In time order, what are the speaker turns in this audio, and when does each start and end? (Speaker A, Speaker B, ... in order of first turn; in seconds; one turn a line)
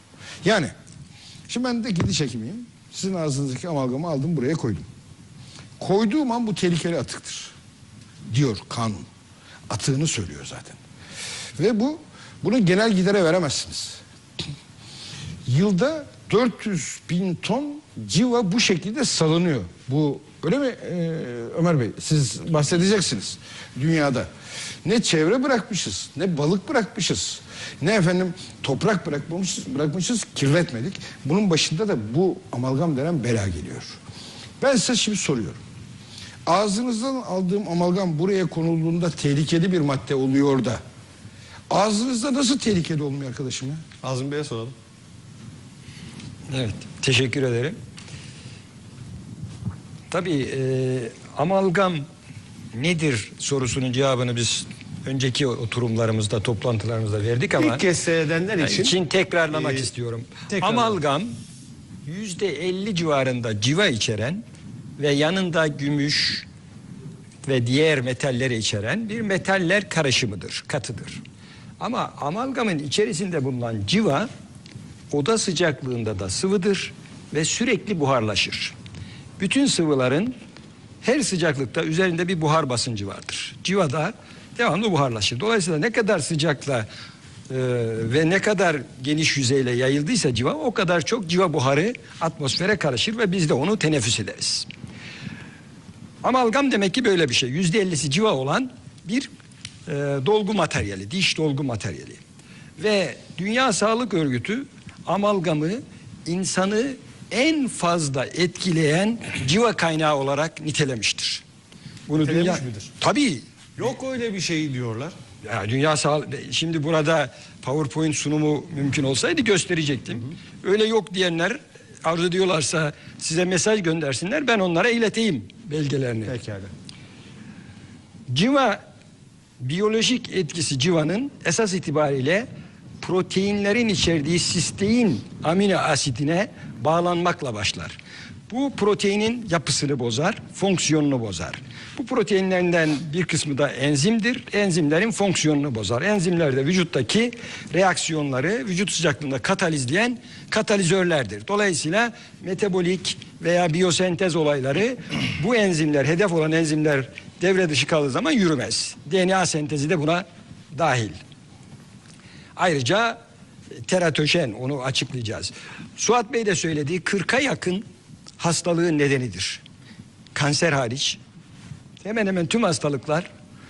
Speaker A: 0.4-0.7
Speaker A: 1.5-4.8
Speaker A: 5.8-7.5
Speaker A: 8.3-9.1
Speaker A: 9.7-10.8
Speaker A: 11.6-14.0
Speaker A: 15.4-24.3
Speaker A: 24.8-34.0
Speaker A: 34.6-35.6
Speaker A: 36.5-40.8
Speaker A: 41.7-43.8
Speaker B: 44.0-44.7
Speaker C: 46.5-47.7
Speaker C: 50.1-52.0
Speaker C: 52.7-57.8
Speaker B: 57.5-59.0
Speaker C: 58.6-61.4
Speaker B: 59.5-59.9
Speaker B: 60.5-61.0
Speaker C: 62.0-64.4
Speaker C: 65.0-66.5
Speaker C: 67.4-71.2
Speaker C: 71.8-74.3
Speaker C: 75.1-78.7
Speaker C: 79.4-80.3
Speaker C: 81.0-86.9
Speaker C: 87.5-94.7
Speaker C: 96.2-99.3
Speaker C: 99.9-102.2
Speaker C: 102.8-111.4
Speaker C: 112.1-113.4
Speaker B: 112.1-112.9
Speaker B: 113.8-115.1
Speaker C: 115.4-126.3
Speaker B: 126.2-126.7
Speaker C: 128.3-128.8
Speaker C: 129.6-132.4
Speaker C: 133.0-138.0
Speaker C: 138.5-161.2
Speaker C: 162.6-163.2
Speaker C: 163.8-167.8
Speaker C: 168.4-169.6
Speaker C: 170.3-171.2
Speaker C: 172.0-173.3